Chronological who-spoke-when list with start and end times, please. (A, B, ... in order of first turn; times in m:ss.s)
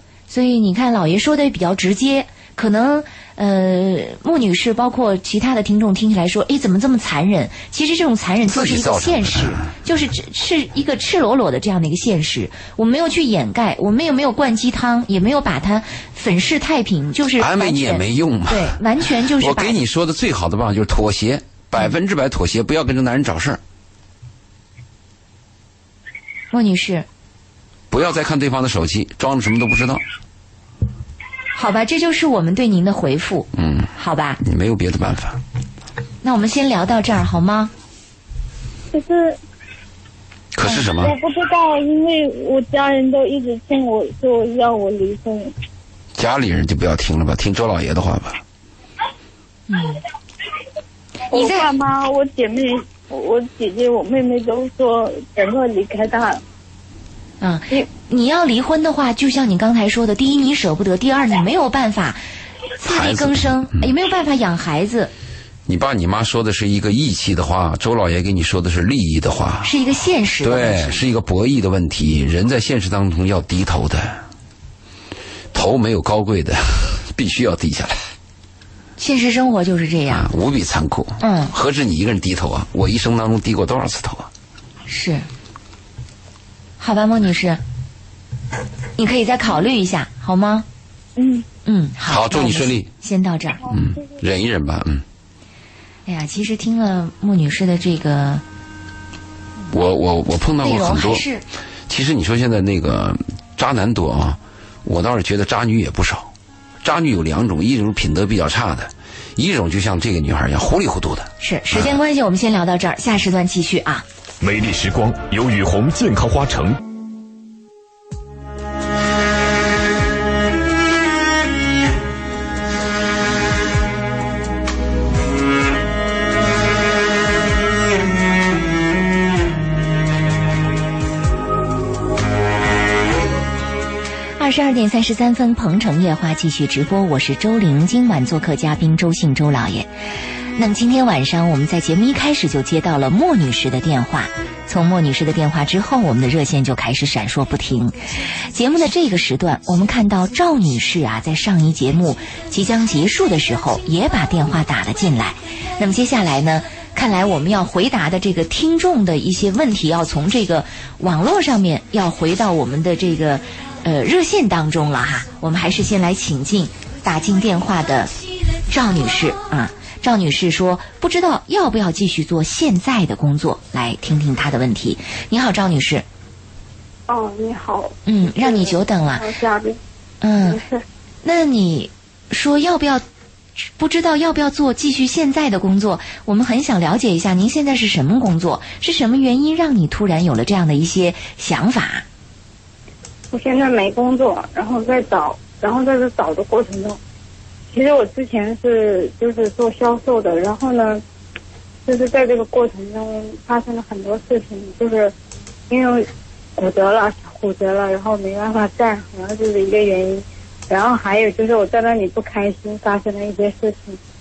0:00.3-0:19.8 A
0:08.4-0:09.7 B
0:17.4-0:23.6 B
0:26.5-0:27.1 A
0:27.9-0:30.0 B
0:31.5-0:34.4 A
0:33.5-0:35.4 B
0:36.2-0:37.7 A
0:38.9-0:39.4 C
0:40.5-0:41.1 B
0:40.8-0:45.5 C
0:46.1-0:48.4 B
0:49.7-0:50.0 A
0:51.3-0:51.7 A
0:51.3-0:56.4 C
0:57.4-1:02.2 A
1:02.8-1:05.1 A
1:02.8-1:03.9 B
1:05.7-1:09.7 B
1:09.6-1:11.0 A
1:10.4-1:14.2 B
1:15.5-1:18.0 B
1:19.0-1:20.3 A
1:20.1-1:24.3 B
1:21.2-1:21.5 A
1:24.9-1:25.3 A
1:26.8-1:27.6 A
1:29.0-1:30.6 A
1:31.2-1:31.4 C
1:31.6-1:33.6 A
1:32.0-1:32.9 B
1:33.7-1:35.0 B
1:36.0-1:38.4 A
1:39.7-1:41.2 B
1:40.6-1:41.4 A
1:41.9-1:46.3 B
1:46.8-1:52.0 B
1:51.4-1:54.0 A
1:54.4-1:56.8 D
2:14.4-2:19.9 A
2:20.6-2:48.1 A
2:48.6-2:56.0 A
2:57.1-2:59.8 E
2:58.0-2:59.3 A
3:00.2-3:00.6 A
3:00.5-3:00.8 E
3:01.2-3:03.0 A
3:03.6-3:12.0 A
3:13.3-3:17.0 E
3:17.7-3:21.0 E
3:21.8-3:25.1 E
3:25.7-3:34.0 E